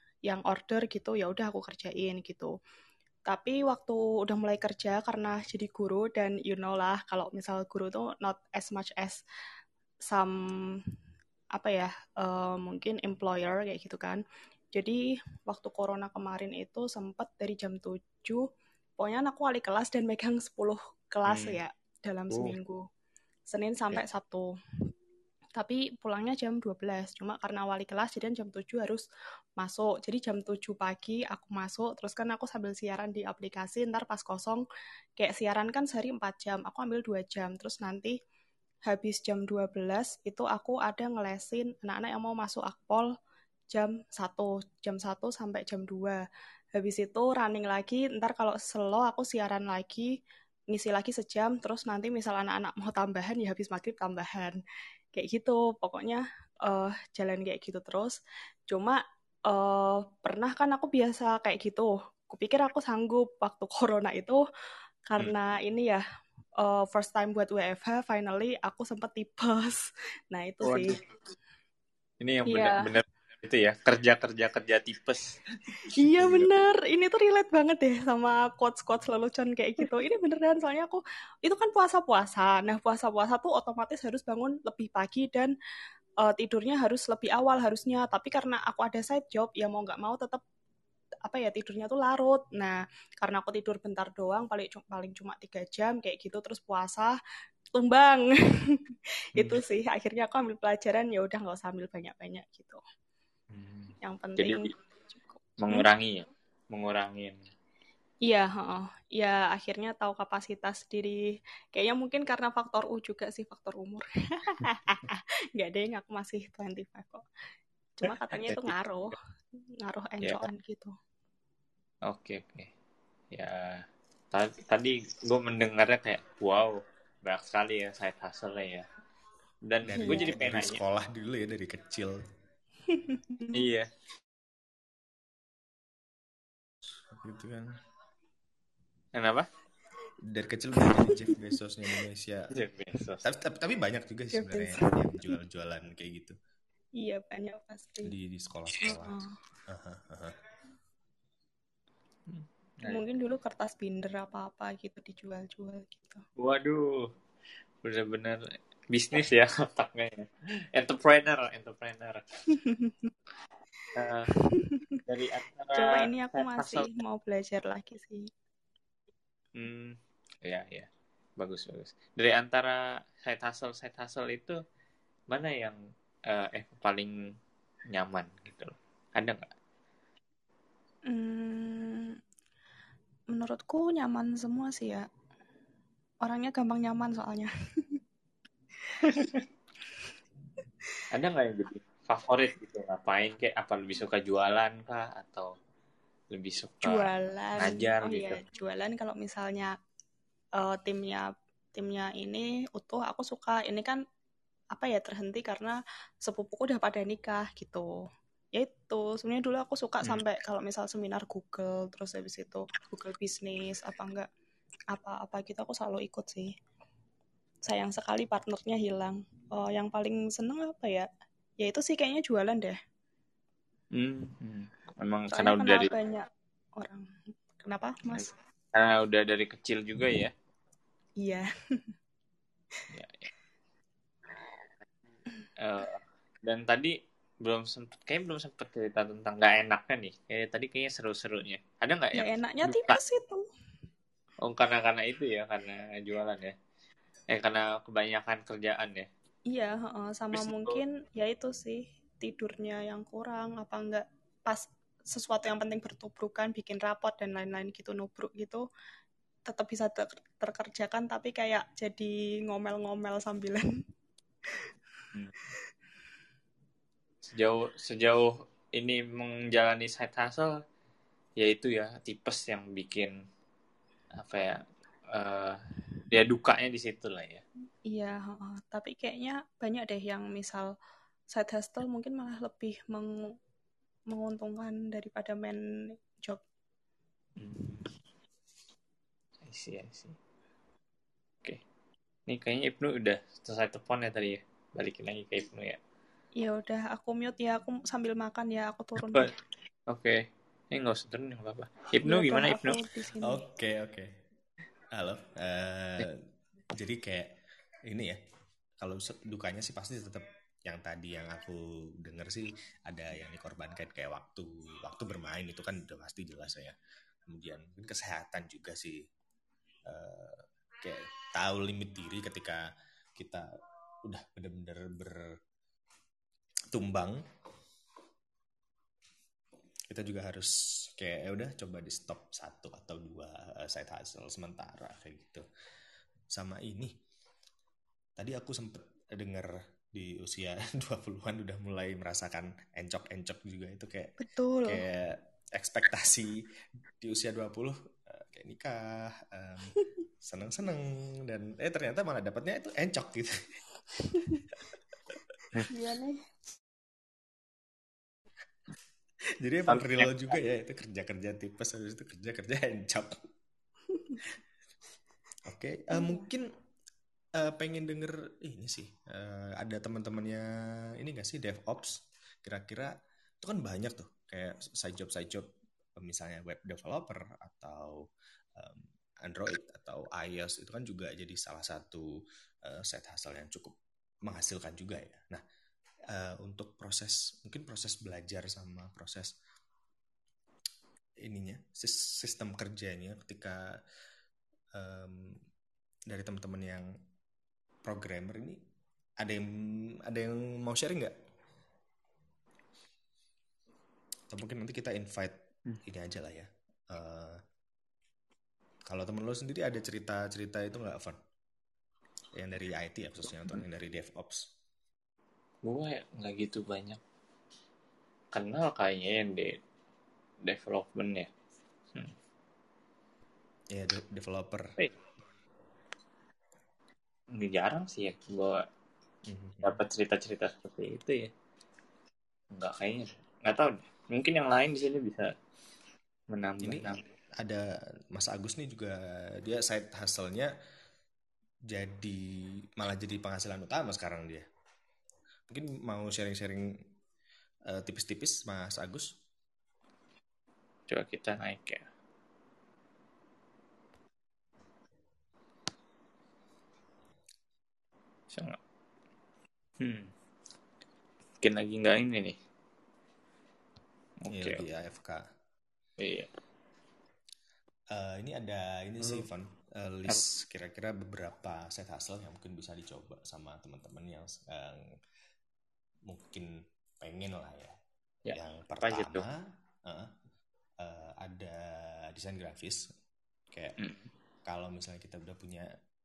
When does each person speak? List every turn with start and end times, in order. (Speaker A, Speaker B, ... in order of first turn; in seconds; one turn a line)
Speaker A: 0.2-2.5
Speaker A: 3.3-9.2
Speaker A: 10.1-10.8
Speaker A: 11.5-18.4
Speaker A: 19.0-22.8
Speaker B: 21.3-21.6
Speaker B: 22.3-22.6
Speaker A: 23.5-24.5
Speaker A: 25.6-29.0
Speaker A: 29.6-34.6
Speaker A: 35.2-38.1
Speaker A: 38.8-43.1
Speaker A: 43.7-46.2
Speaker A: 46.7-50.1
Speaker A: 50.7-54.6
Speaker A: 55.1-58.2
Speaker A: 58.7-64.4
Speaker A: 65.1-66.0
Speaker A: 66.6-71.0
Speaker B: 70.6-71.0
Speaker B: 72.2-75.4
Speaker A: 72.5-72.9
Speaker A: 75.9-85.5
Speaker B: 76.2-76.5
Speaker A: 86.2-90.4
Speaker A: 91.2-97.2
Speaker A: 97.7-102.8
Speaker B: 103.5-104.7
Speaker A: 104.0-104.7
Speaker B: 105.6-107.4
Speaker A: 108.2-117.2
Speaker A: 118.0-119.2
Speaker B: 118.3-118.7
Speaker A: 119.8-120.9
Speaker B: 120.2-120.5
Speaker B: 122.1-122.7
Speaker B: 123.3-128.8
Speaker B: 129.7-130.8
Speaker C: 129.8-132.2
Speaker B: 133.5-133.9
Speaker C: 137.1-137.7
Speaker B: 139.1-139.5
Speaker C: 140.3-142.5
Speaker B: 142.5-143.2
Speaker C: 143.2-146.3
Speaker A: 144.3-145.1
Speaker A: 147.0-148.1
Speaker C: 148.0-150.3
Speaker B: 152.3-153.0
Speaker A: 152.8-156.2
Speaker B: 156.4-157.1
Speaker B: 157.8-162.4
Speaker A: 162.5-163.1
Speaker B: 163.9-164.3
Speaker A: 164.4-165.0
Speaker B: 165.1-166.9
Speaker A: 165.7-168.3
Speaker B: 169.6-174.6
Speaker B: 175.3-177.1
Speaker B: 177.9-179.5
Speaker A: 181.1-182.2
Speaker A: 183.3-185.1
Speaker A: 186.2-188.0
Speaker B: 191.1-195.5
Speaker B: 196.3-198.4
Speaker A: 196.8-199.7
Speaker A: 200.6-204.0
Speaker A: 204.7-207.9
Speaker A: 208.5-214.3
Speaker A: 214.9-216.5
Speaker A: 217.6-221.1
Speaker A: 221.6-222.8
Speaker B: 223.9-225.9
Speaker A: 225.3-228.3
Speaker B: 228.1-230.3
Speaker A: 231.2-231.5
Speaker B: 232.9-233.3
Speaker B: 235.6-243.0
Speaker A: 242.1-243.5
Speaker B: 244.4-246.5
Speaker B: 247.3-249.1
Speaker A: 249.5-258.6
Speaker B: 250.3-250.8
Speaker A: 259.5-263.7
Speaker B: 267.3-270.5
Speaker B: 271.4-273.1
Speaker B: 274.2-277.4
Speaker A: 277.9-280.7
Speaker A: 281.3-283.3
Speaker A: 284.1-286.4
Speaker B: 287.4-287.9
Speaker B: 289.5-290.1
Speaker B: 292.3-295.8
Speaker A: 296.4-299.3
Speaker B: 299.9-302.8
Speaker A: 302.0-303.4
Speaker C: 303.2-304.1
Speaker C: 304.9-306.2
Speaker C: 306.7-307.3
Speaker C: 307.9-308.2
Speaker C: 308.8-316.7
Speaker C: 317.3-319.0
Speaker C: 319.9-322.6
Speaker C: 323.1-323.5
Speaker C: 324.1-325.2
Speaker C: 326.7-327.2
Speaker C: 329.9-335.4
Speaker C: 336.3-336.9
Speaker C: 338.2-346.4
Speaker A: 344.2-344.8
Speaker C: 347.0-353.6
Speaker A: 355.7-356.2
Speaker C: 359.4-363.1
Speaker B: 359.7-360.1
Speaker C: 365.4-366.5
Speaker A: 365.9-366.2
Speaker C: 367.4-370.5
Speaker C: 371.0-378.0
Speaker C: 378.6-382.1
Speaker C: 382.6-383.7
Speaker C: 384.2-385.4
Speaker C: 386.1-389.3
Speaker C: 391.2-393.7
Speaker C: 394.7-395.4
Speaker C: 396.1-396.9
Speaker C: 397.8-398.6
Speaker C: 399.2-399.5
Speaker C: 400.1-401.1
Speaker C: 404.3-407.4
Speaker C: 408.9-411.2
Speaker C: 412.3-414.5
Speaker B: 415.6-417.0
Speaker B: 418.3-419.6
Speaker B: 420.4-421.3
Speaker C: 423.7-424.7
Speaker B: 427.3-428.6
Speaker C: 429.3-429.8
Speaker B: 429.6-431.3
Speaker B: 432.5-435.3
Speaker B: 436.3-437.0
Speaker C: 436.6-440.5
Speaker C: 441.7-442.2
Speaker C: 442.8-444.4
Speaker C: 445.5-446.7
Speaker C: 447.7-449.1
Speaker B: 450.9-451.8
Speaker B: 458.3-458.6
Speaker B: 459.8-460.1
Speaker B: 461.4-462.4
Speaker B: 464.2-464.6
Speaker C: 464.3-465.2
Speaker B: 466.0-466.3
Speaker C: 467.9-474.8
Speaker C: 476.1-477.7
Speaker B: 478.2-479.2
Speaker C: 478.3-480.1
Speaker C: 480.8-482.8
Speaker C: 483.5-483.8
Speaker B: 483.8-484.1
Speaker C: 484.4-485.7